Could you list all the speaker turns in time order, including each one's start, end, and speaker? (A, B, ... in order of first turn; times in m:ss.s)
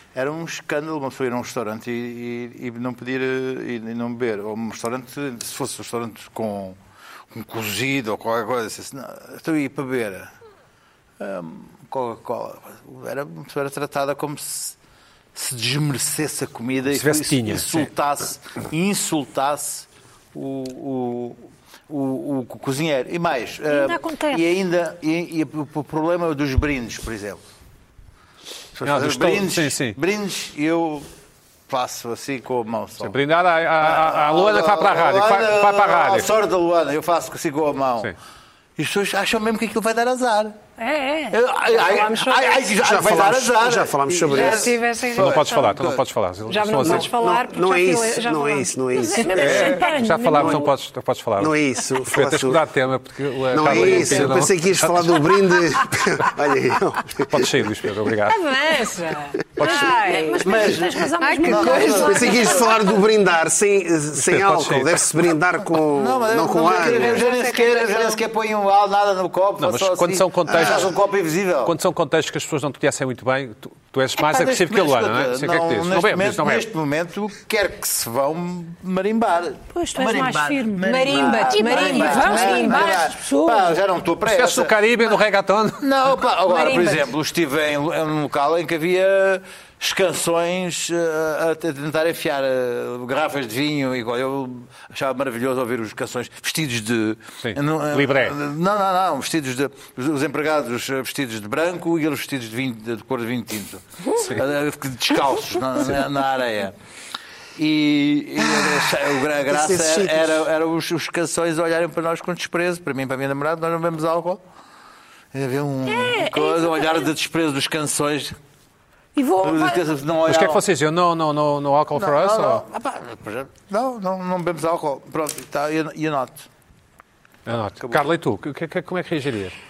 0:00.1-0:06.8 A
0:07.3-0:10.3 A
0:11.2-0:14.8 A
0:15.3-0:27.4 A
0:16.9-0:17.9 B
0:23.7-0:24.4 C
0:28.8-0:31.1 A
0:28.8-0:30.0 B
0:31.7-0:33.2 A
0:33.0-0:36.3 B
0:33.8-0:38.1 A
0:38.8-0:40.6 A
0:40.8-0:41.4 C
0:41.3-0:46.0 A
0:41.7-0:42.7 D
0:42.8-0:44.7 E
0:44.3-0:45.7 D
0:45.2-0:47.1 B
0:46.5-0:50.0 D
0:46.8-0:49.7 E
0:49.0-0:50.7 C
0:49.4-0:51.6 B
0:51.4-0:52.6 E
0:52.1-0:55.2 B
0:53.5-0:57.6 E
0:57.2-0:58.4 B
0:58.3-1:00.7 D
0:59.6-0:59.8 B
0:59.6-1:02.6 C
1:00.4-1:02.6 A
1:01.2-1:03.0 D
1:02.0-1:07.2 E
1:04.2-1:05.1 B
1:05.9-1:11.8 A
1:06.8-1:08.2 D
1:09.6-1:10.9 B
1:11.6-1:16.7 B
1:14.2-1:24.7 A
1:19.7-1:23.7 C
1:20.8-1:23.0 D
1:24.3-1:25.8 B
1:25.8-1:46.7 A
1:26.5-1:27.1 D
1:37.4-1:38.4 B
1:47.6-1:54.4 A
1:49.5-1:50.4 E
1:55.3-1:58.4 A
1:55.9-1:57.1 C
1:59.2-1:59.9 C
1:59.4-2:00.6 A
2:00.2-2:02.6 B
2:02.0-2:06.5 A
2:07.5-2:09.6 B
2:07.8-2:08.0 A